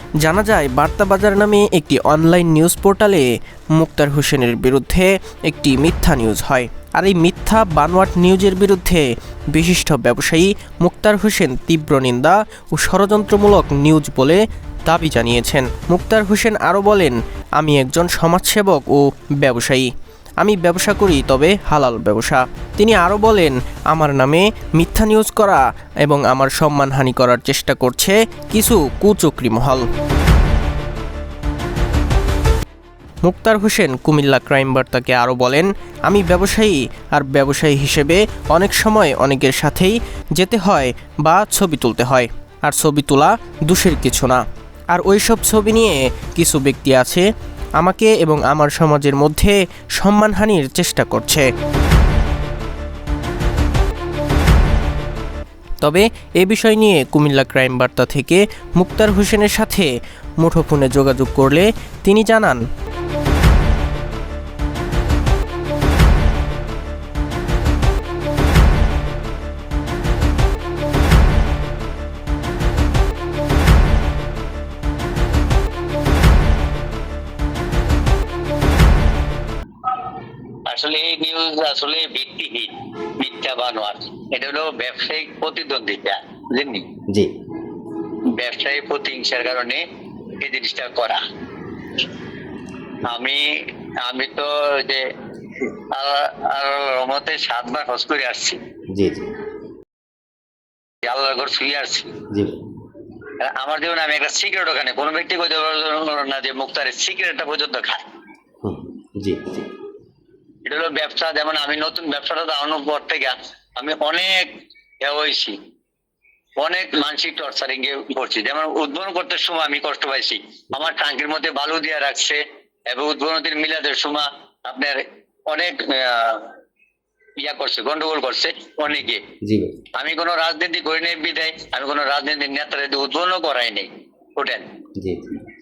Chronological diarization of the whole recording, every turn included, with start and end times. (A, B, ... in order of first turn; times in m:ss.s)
0:00.2-0:19.9 A
0:20.4-0:29.9 A
0:33.2-0:47.2 A
0:47.8-0:51.5 A
0:55.8-0:59.9 A
1:00.4-1:02.6 A
1:20.6-1:26.9 B
1:28.2-1:29.8 B
1:30.4-1:31.2 B
1:33.0-1:38.6 B
1:38.9-1:39.3 C
1:41.0-1:42.2 B
1:42.3-1:42.6 C
1:43.4-1:48.0 B
1:48.6-1:49.7 C
1:50.6-1:55.6 B
1:56.6-2:06.5 B
2:07.4-2:09.3 B
2:09.4-2:09.8 C
2:09.9-2:14.7 B
2:15.0-2:15.3 C